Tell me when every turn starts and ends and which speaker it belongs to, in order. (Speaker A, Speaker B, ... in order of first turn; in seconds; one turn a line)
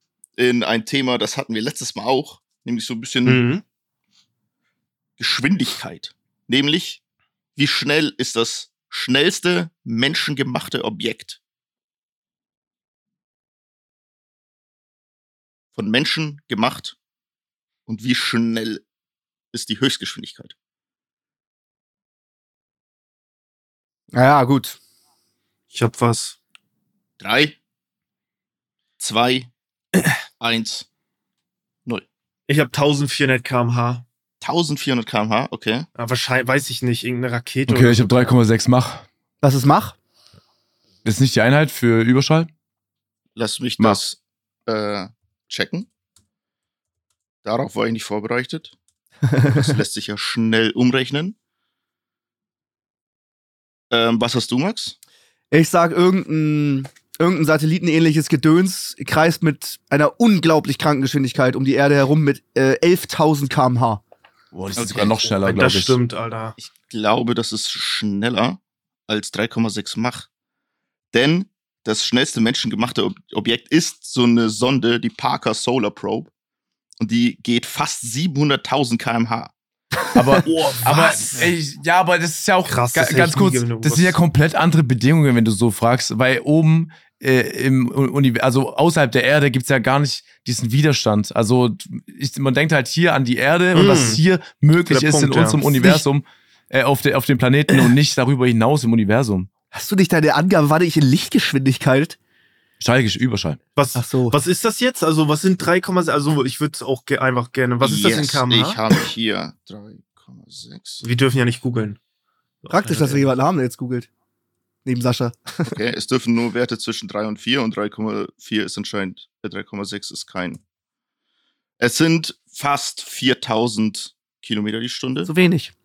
Speaker A: 0.4-3.4
Speaker B: 3.2-3.6
Speaker A: 5.2-7.0
Speaker A: 7.6-11.4
Speaker A: 15.7-17.0
Speaker A: 17.9-18.8
Speaker A: 19.5-20.6
Speaker C: 24.1-24.8
Speaker B: 25.7-26.4
Speaker A: 27.2-27.6
Speaker A: 29.0-29.5
Speaker A: 30.4-30.9
Speaker B: 32.5-34.0
Speaker A: 34.4-35.9
Speaker B: 36.0-38.4
Speaker D: 37.7-39.1
Speaker C: 39.4-40.0
Speaker D: 41.0-42.5
Speaker A: 43.4-45.9
Speaker A: 47.4-48.8
Speaker C: 49.3-49.8
Speaker A: 49.5-51.4
Speaker A: 53.9-55.0
Speaker C: 55.5-64.0
Speaker D: 64.5-66.0
Speaker A: 64.8-65.2
Speaker B: 65.3-66.6
Speaker A: 66.6-70.3
Speaker A: 71.1-76.3
Speaker A: 77.0-79.5
Speaker D: 80.1-99.5
Speaker B: 80.5-81.5
Speaker B: 82.7-84.2
Speaker B: 93.7-94.2
Speaker B: 94.9-96.0
Speaker C: 99.7-102.2
Speaker D: 102.8-103.6
Speaker B: 103.8-108.8
Speaker C: 104.0-104.4
Speaker A: 107.8-111.0
Speaker B: 111.0-112.0
Speaker B: 112.7-113.3
Speaker C: 112.7-114.1
Speaker C: 114.8-115.8
Speaker A: 115.7-120.6
Speaker A: 121.8-125.3
Speaker C: 125.2-125.7